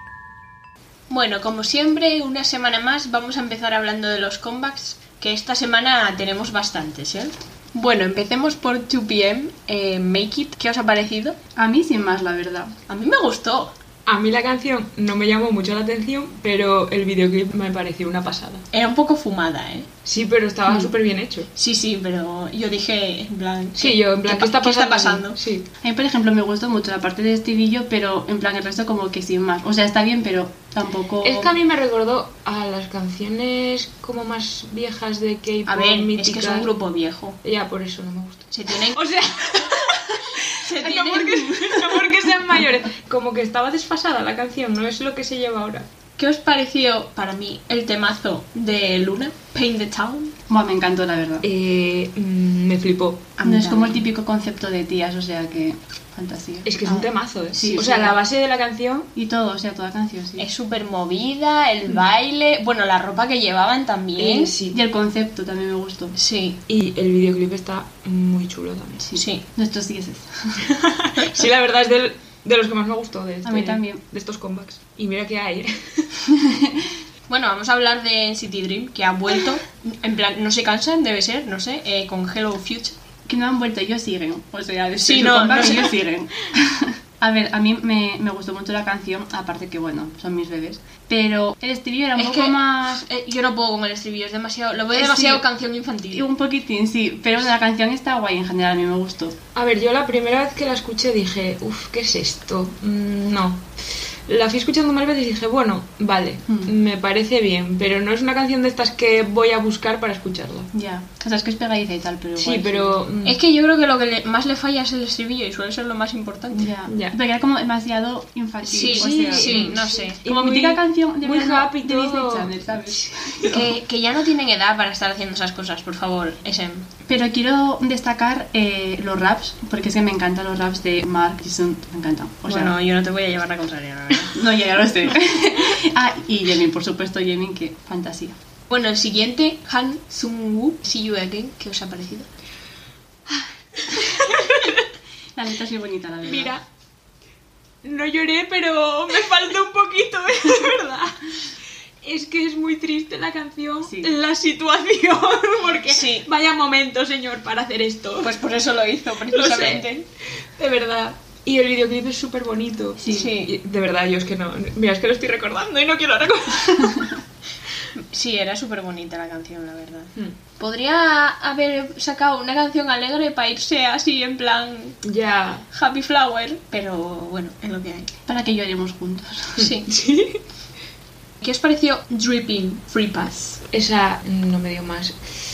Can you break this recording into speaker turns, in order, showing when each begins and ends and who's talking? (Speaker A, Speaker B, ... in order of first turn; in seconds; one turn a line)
Speaker A: 1.1-11.4
Speaker B: 11.6-12.7
Speaker A: 12.9-13.7
Speaker C: 14.1-18.6
Speaker A: 18.7-19.9
Speaker C: 20.0-21.5
Speaker A: 21.6-25.4
Speaker C: 23.8-25.7
Speaker B: 25.8-31.6
Speaker C: 31.2-36.7
Speaker A: 35.6-37.4
Speaker C: 37.4-45.9
Speaker A: 38.5-39.0
Speaker A: 40.6-41.7
Speaker A: 46.2-50.3
Speaker B: 50.5-51.5
Speaker C: 51.4-53.3
Speaker A: 53.4-54.0
Speaker B: 53.4-56.7
Speaker C: 56.6-59.1
Speaker A: 56.8-57.1
Speaker B: 57.5-58.1
Speaker A: 57.7-58.1
Speaker B: 59.1-60.5
Speaker A: 60.4-64.5
Speaker C: 64.2-64.8
Speaker B: 64.7-66.1
Speaker A: 66.1-66.6
Speaker C: 66.7-69.0
Speaker B: 69.0-70.6
Speaker A: 69.1-69.4
Speaker C: 70.6-76.2
Speaker A: 71.2-71.5
Speaker B: 73.4-74.0
Speaker B: 76.3-76.8
Speaker A: 77.3-83.0
Speaker B: 83.2-93.0
Speaker A: 85.0-86.0
Speaker A: 92.2-96.3
Speaker B: 94.9-95.4
Speaker B: 96.1-99.3
Speaker C: 99.5-110.7
Speaker B: 106.5-106.7
Speaker B: 110.7-113.0
Speaker C: 112.4-113.4
Speaker A: 113.2-116.7
Speaker B: 116.5-123.7
Speaker C: 116.9-117.2
Speaker A: 118.6-120.2
Speaker C: 118.7-123.6
Speaker A: 123.5-126.9
Speaker B: 127.1-132.7
Speaker A: 132.4-134.4
Speaker B: 134.3-138.3
Speaker A: 138.7-142.3
Speaker C: 143.4-144.9
Speaker B: 145.3-146.6
Speaker C: 146.2-146.6
Speaker C: 147.8-151.5
Speaker C: 152.0-158.3
Speaker B: 153.8-154.1
Speaker A: 155.9-156.3
Speaker A: 158.2-160.1
Speaker C: 159.3-167.2
Speaker B: 163.0-163.3
Speaker A: 163.1-163.6
Speaker A: 167.9-175.0
Speaker C: 175.0-175.6
Speaker A: 175.7-178.1
Speaker B: 178.3-179.6
Speaker A: 179.6-179.9
Speaker C: 179.6-180.4
Speaker A: 181.4-183.6
Speaker C: 183.7-185.2